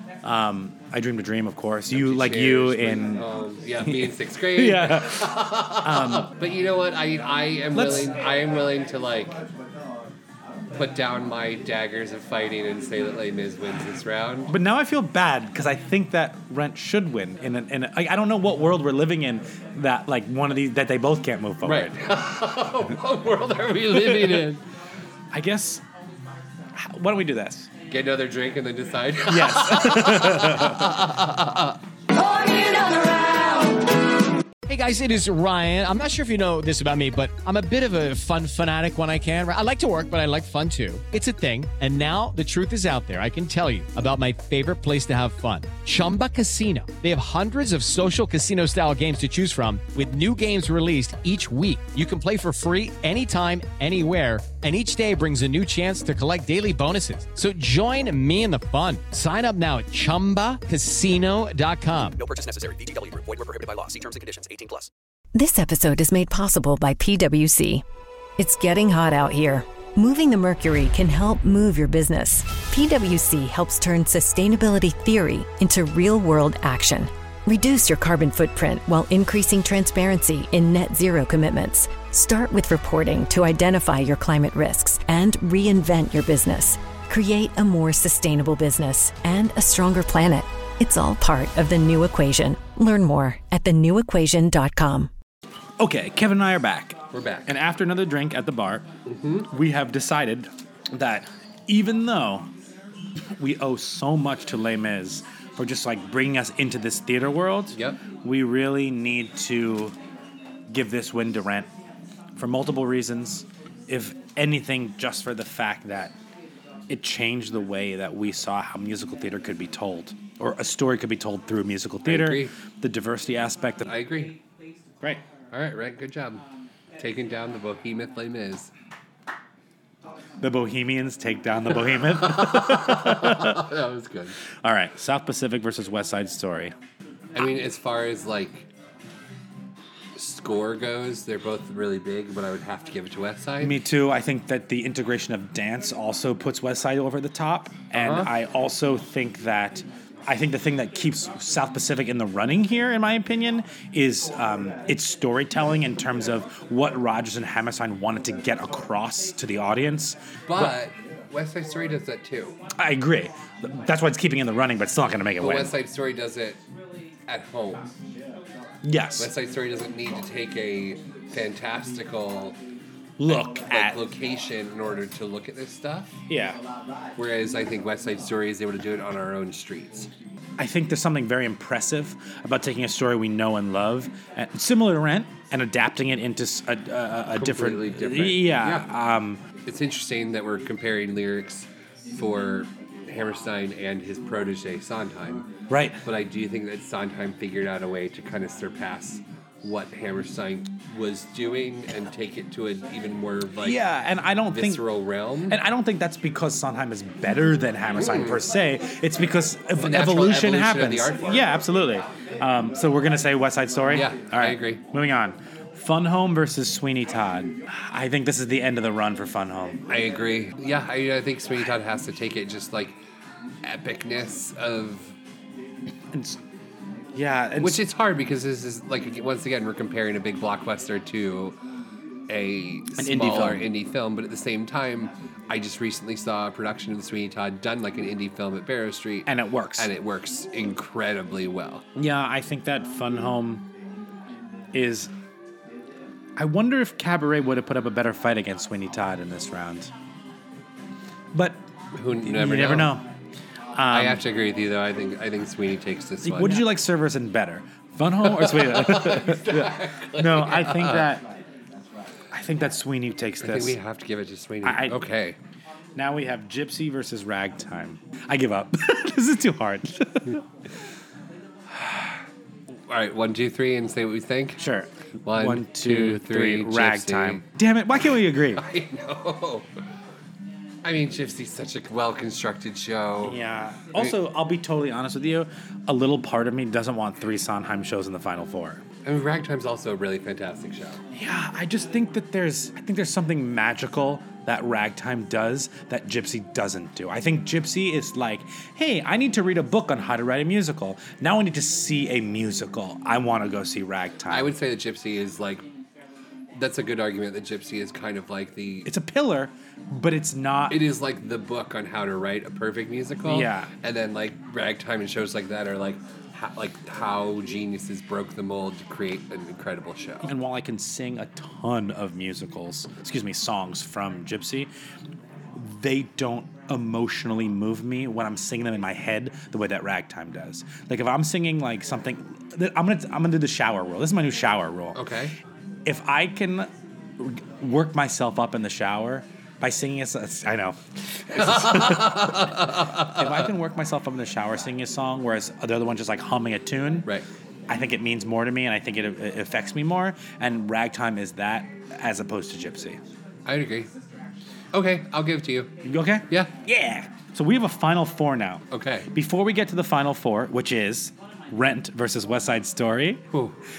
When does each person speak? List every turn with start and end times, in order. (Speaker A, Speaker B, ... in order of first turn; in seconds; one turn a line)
Speaker A: 0.2-3.2
Speaker B: 1.9-9.4
Speaker A: 3.8-6.3
Speaker A: 7.7-8.2
Speaker B: 10.7-14.5
Speaker A: 14.5-21.9
Speaker B: 21.6-24.6
Speaker A: 25.3-25.8
Speaker A: 26.7-27.7
Speaker B: 27.9-31.8
Speaker A: 29.3-30.9
Speaker C: 34.7-62.2
Speaker D: 62.2-64.9
Speaker E: 65.3-67.8
Speaker E: 68.4-95.1
Speaker A: 95.8-98.9
Speaker B: 97.1-97.5
Speaker B: 99.0-99.5
Speaker A: 99.5-102.5
Speaker A: 103.4-109.9
Speaker B: 107.7-108.0
Speaker A: 110.7-111.7
Speaker A: 112.3-116.1
Speaker A: 116.9-123.9
Speaker B: 122.0-122.5
Speaker B: 123.8-124.4
Speaker B: 125.5-126.4
Speaker B: 127.0-128.7
Speaker A: 130.4-133.6
Speaker B: 132.0-134.4
Speaker A: 134.6-136.7
Speaker B: 137.3-138.7
Speaker B: 140.1-143.8
Speaker A: 143.6-160.8
Speaker B: 147.9-148.3
Speaker B: 160.5-162.6
Speaker A: 162.8-165.7
Speaker B: 165.4-166.6
Speaker B: 167.3-167.9
Speaker A: 168.8-169.3
Speaker B: 169.2-172.6
Speaker A: 173.2-174.0
Speaker B: 173.3-176.1
Speaker A: 176.3-176.6
Speaker B: 177.2-180.1
Speaker A: 180.6-189.4
Speaker B: 187.3-188.9
Speaker B: 189.6-195.5
Speaker A: 195.7-196.0
Speaker B: 196.0-203.8
Speaker A: 203.6-204.8
Speaker B: 204.5-205.6
Speaker A: 205.5-219.8
Speaker B: 208.0-208.4
Speaker B: 209.8-211.5
Speaker B: 213.9-214.8
Speaker B: 219.9-222.9
Speaker B: 223.6-225.1
Speaker A: 226.1-226.4
Speaker A: 227.1-227.8
Speaker B: 227.6-231.6
Speaker B: 232.3-241.8
Speaker A: 233.0-233.7
Speaker A: 239.2-239.9
Speaker A: 241.9-243.7
Speaker A: 244.7-245.1
Speaker A: 246.3-249.9
Speaker A: 251.3-251.6
Speaker B: 251.9-252.9
Speaker A: 252.2-253.1
Speaker A: 253.8-254.2
Speaker B: 253.9-256.6
Speaker A: 256.2-261.3
Speaker B: 258.2-261.1
Speaker A: 262.3-263.8
Speaker B: 263.4-265.4
Speaker A: 264.6-265.0
Speaker A: 265.9-270.4
Speaker B: 272.9-274.6
Speaker A: 274.6-278.6
Speaker B: 275.2-277.4
Speaker B: 278.5-279.7
Speaker B: 280.8-283.4
Speaker A: 283.2-288.8
Speaker B: 289.0-291.0
Speaker A: 291.1-304.5
Speaker B: 304.3-305.6
Speaker B: 306.6-308.9
Speaker A: 308.8-310.8
Speaker B: 310.7-320.3
Speaker A: 313.2-313.7
Speaker A: 320.2-324.7
Speaker A: 325.5-335.0
Speaker B: 334.9-335.3
Speaker A: 335.8-347.1
Speaker B: 341.3-343.4
Speaker A: 347.7-353.0
Speaker B: 353.4-353.9
Speaker B: 354.7-355.7
Speaker A: 355.8-363.2
Speaker B: 358.7-359.1